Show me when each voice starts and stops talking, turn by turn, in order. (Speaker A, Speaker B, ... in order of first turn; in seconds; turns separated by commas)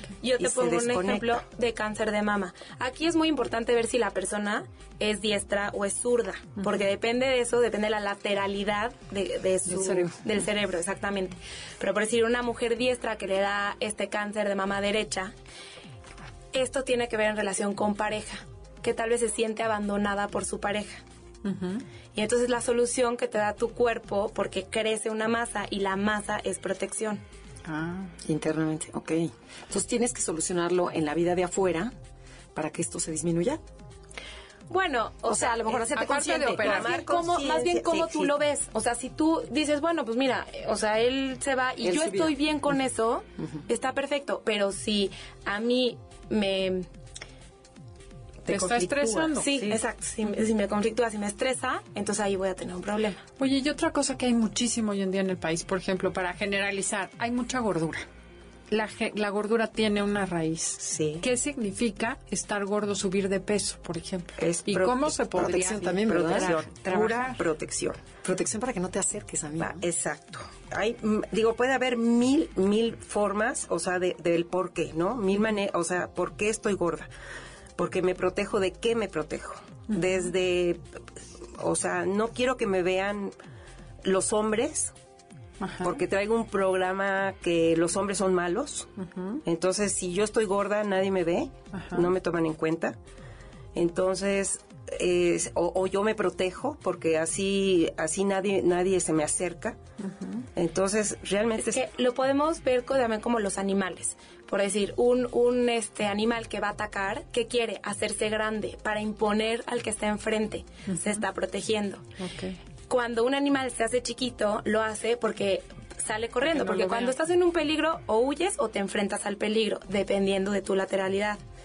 Speaker A: 0.2-15.3, Speaker B: 0.4-1.4, Speaker C: 9.7-10.2, Speaker A: 16.5-21.0, Speaker D: 21.4-21.8, Speaker A: 22.1-27.2, Speaker D: 27.6-28.1, Speaker C: 28.2-31.9, Speaker C: 32.5-33.6, Speaker A: 34.7-46.9, Speaker C: 35.3-36.6, Speaker D: 35.9-37.0, Speaker B: 36.5-38.3, Speaker C: 41.8-42.3, Speaker B: 48.4-49.8, Speaker D: 48.5-49.5, Speaker A: 49.4-53.2, Speaker D: 53.4-58.0, Speaker D: 58.7-67.4, Speaker B: 60.8-61.2, Speaker B: 64.4-68.0, Speaker C: 65.4-66.5, Speaker C: 68.2-69.8, Speaker B: 69.6-77.1, Speaker B: 77.8-80.8, Speaker B: 81.5-83.3, Speaker B: 84.0-84.9, Speaker D: 85.6-86.0, Speaker B: 85.8-88.9, Speaker D: 89.0-89.4, Speaker B: 89.4-93.0, Speaker D: 91.7-92.1, Speaker B: 93.7-99.8, Speaker D: 100.0-100.4, Speaker B: 100.5-101.8, Speaker A: 101.6-112.0, Speaker D: 111.0-111.2, Speaker D: 112.2-112.6, Speaker A: 112.9-121.4, Speaker D: 116.4-117.1